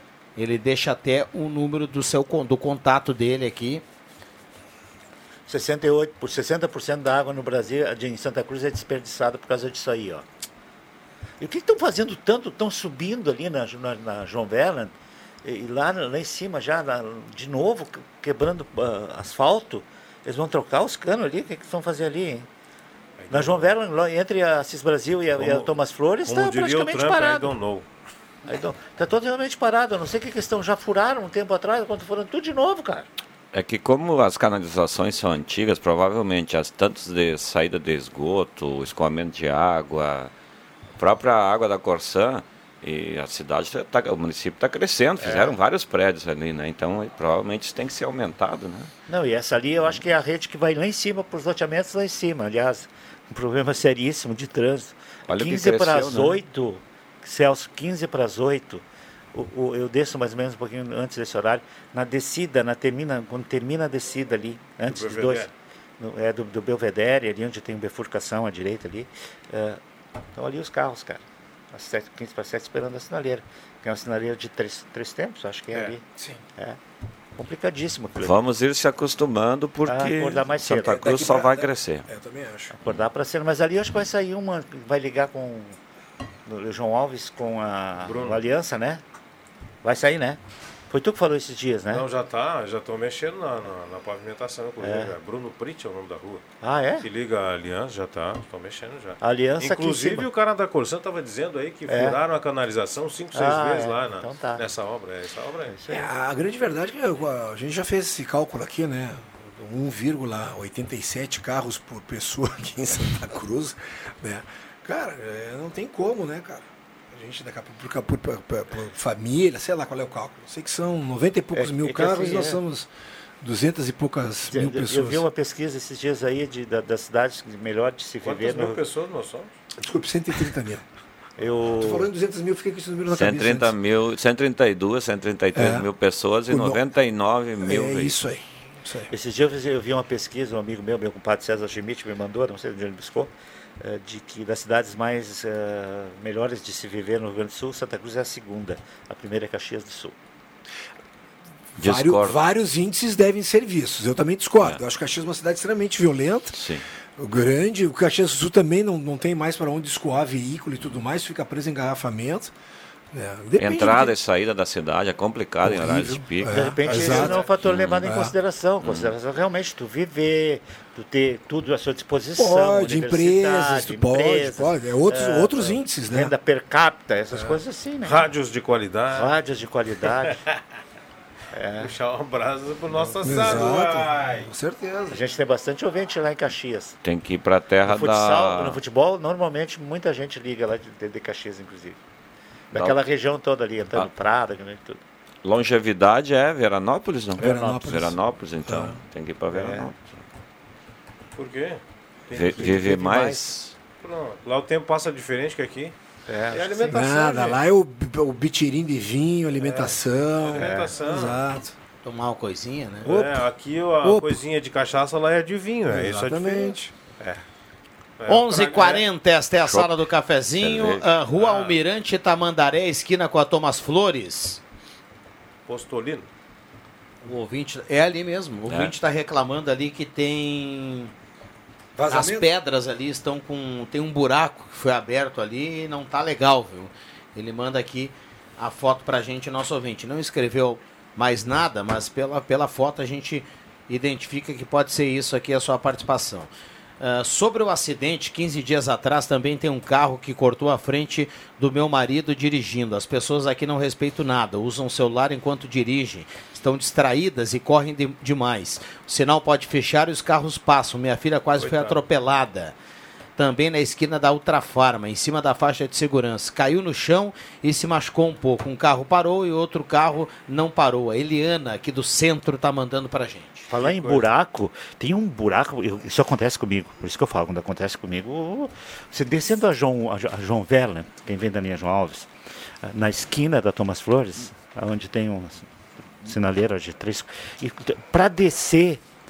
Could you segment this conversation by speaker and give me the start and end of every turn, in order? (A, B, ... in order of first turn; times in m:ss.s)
0:00.4-0:03.8 A
0:05.5-0:10.2 B
0:11.4-0:22.5 B
0:23.2-0:23.7 C
0:23.3-0:27.6 B
0:25.4-0:27.8 C
0:28.4-0:33.1 B
0:33.5-0:40.3 D
0:41.0-0:48.9 D
0:45.2-0:45.6 B
0:49.1-1:09.8 B
0:55.3-0:56.4 D
1:04.9-1:05.5 C
1:10.3-1:16.0 B
1:17.4-1:18.4 B
1:18.2-1:22.0 D
1:19.8-1:21.2 B
1:20.7-1:22.7 E
1:22.8-1:25.8 B
1:26.4-1:29.0 B
1:28.0-1:28.5 C
1:29.8-1:32.1 B
1:31.9-1:36.4 C
1:34.8-1:35.1 B
1:36.6-1:37.1 B
1:37.0-1:45.7 C
1:39.2-1:40.3 B
1:41.9-1:42.2 B
1:43.3-1:44.7 B
1:45.7-1:46.0 B
1:45.9-2:02.9 E
2:01.6-2:02.6 B
2:03.4-2:05.2 E
2:04.5-2:08.8 B
2:08.2-2:09.5 C
2:09.8-2:10.8 E
2:11.4-2:12.1 B
2:11.8-2:13.7 E
2:13.1-2:18.2 D
2:15.5-2:15.9 E
2:16.5-2:16.8 E
2:17.6-2:19.1 E
2:19.1-2:30.1 B
2:31.8-2:32.4 D
2:31.8-2:36.6 E
2:36.5-2:36.8 D
2:37.2-2:42.5 E
2:43.1-2:44.2 E
2:43.6-2:46.6 D
2:45.6-2:47.4 E
2:46.5-2:58.3 B
2:46.8-2:47.5 C
2:47.6-2:48.0 D
2:48.0-2:48.3 E
2:48.8-2:49.1 D
2:52.4-2:56.3 E
2:57.3-2:57.6 E
2:58.0-2:59.3 C
2:59.1-3:00.4 B
3:00.2-3:00.6 C
3:01.5-3:01.9 B
3:01.8-3:04.5 C
3:03.2-3:05.2 E
3:03.3-3:03.7 B
3:05.1-3:07.0 B
3:07.0-3:08.8 D
3:07.8-3:12.0 B
3:12.7-3:15.0 B
3:12.7-3:13.0 D
3:15.4-3:20.2 D
3:17.4-3:19.0 E
3:17.4-3:18.1 B
3:19.5-3:19.9 B
3:21.4-3:22.8 C
3:22.3-3:23.7 D
3:22.6-3:23.4 E
3:24.0-3:25.9 C
3:26.3-3:27.0 B
3:26.5-3:27.6 C
3:26.9-3:31.7 E
3:29.6-3:31.4 C
3:30.5-3:31.0 B
3:32.0-3:33.1 A
3:33.0-3:33.4 E
3:33.0-3:37.4 C
3:34.0-3:34.4 E
3:35.9-3:36.9 E
3:38.2-3:39.0 C
3:38.3-3:44.6 A
3:39.6-3:41.1 D
3:41.3-3:41.8 C
3:45.6-3:46.3 C
3:47.2-3:51.1 A
3:48.7-3:48.9 D
3:51.9-3:52.5 E
3:52.1-4:22.7 A
4:21.6-4:22.0 C
4:23.4-4:33.7 A
4:33.7-4:42.3 B
4:33.8-4:34.2 C
4:42.8-4:45.7 B
4:46.2-4:49.0 B